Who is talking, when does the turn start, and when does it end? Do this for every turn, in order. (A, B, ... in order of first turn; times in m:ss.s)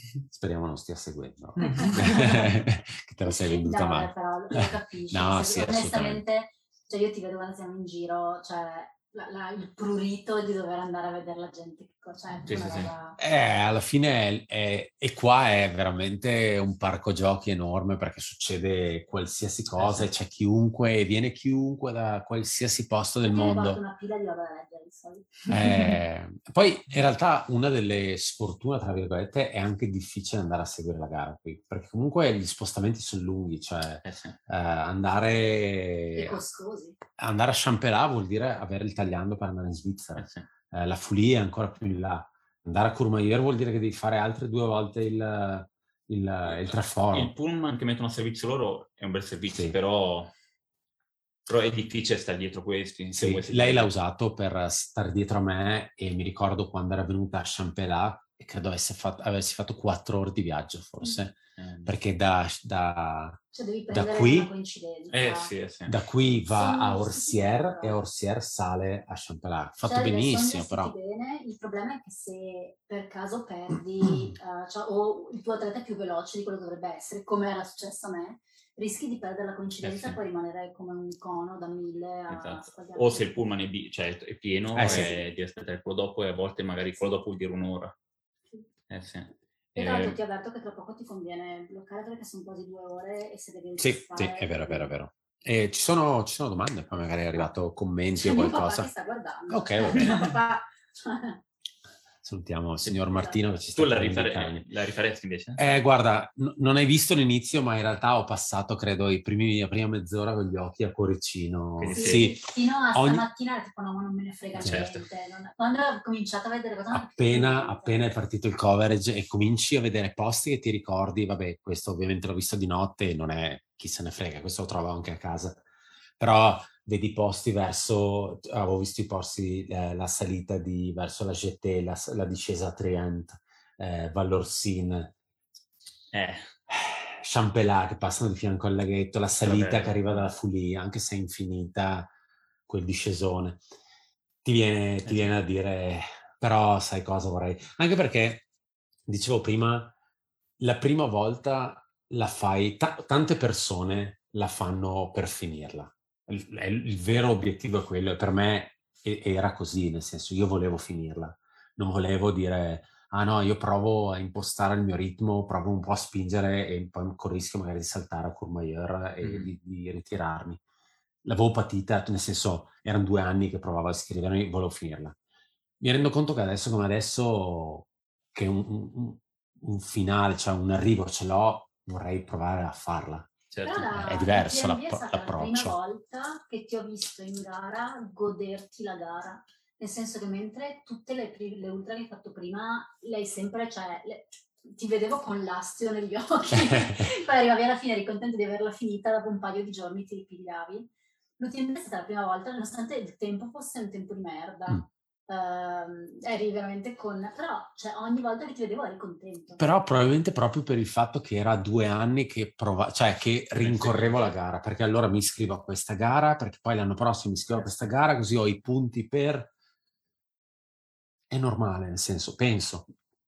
0:00.3-0:06.2 A
0:01.6-0:02.3 B
0:01.7-0:02.5 C
0:03.2-0:13.2 C
0:12.4-0:12.9 B
0:13.2-0:23.8 A
0:19.8-0:20.1 B
0:23.2-0:25.5 C
0:25.5-0:36.4 A
0:34.0-0:34.4 B
0:36.1-0:37.0 C
0:37.2-0:47.3 A
0:40.2-0:40.4 B
0:46.4-0:50.3 B
0:49.5-0:49.8 A
0:51.5-0:53.9 B
0:53.1-1:04.5 A
1:01.5-1:02.0 B
1:03.5-1:05.5 C
1:05.1-1:06.0 B
1:05.9-1:10.9 A
1:06.4-1:08.0 C
1:09.8-1:23.3 C
1:19.8-1:20.2 B
1:22.3-1:28.0 B
1:24.7-1:25.1 A
1:24.8-1:25.2 C
1:28.9-1:30.2 B
1:29.8-1:34.9 C
1:33.8-1:38.9 A
1:38.1-1:41.4 C
1:39.5-1:40.2 A
1:39.9-1:40.4 B
1:42.2-1:44.6 A
1:42.8-1:45.8 B
1:45.6-1:53.2 A
1:51.8-1:52.3 B
1:51.9-1:58.1 C
1:54.5-1:55.1 B
1:56.9-2:05.6 A
2:06.2-2:15.1 A
2:16.1-2:16.5 B
2:16.7-2:22.1 A
2:19.4-2:20.3 B
2:22.7-2:23.6 A
2:24.4-2:28.4 A
2:25.0-2:25.4 B
2:29.1-2:29.9 A
2:30.6-2:50.6 A
2:49.2-2:49.5 B
2:51.2-2:55.1 A
2:55.8-3:03.3 A
3:03.5-3:04.2 B
3:03.6-3:29.7 C
3:04.0-3:05.8 A
3:29.6-3:39.5 A
3:33.6-3:34.4 B
3:41.3-3:42.9 A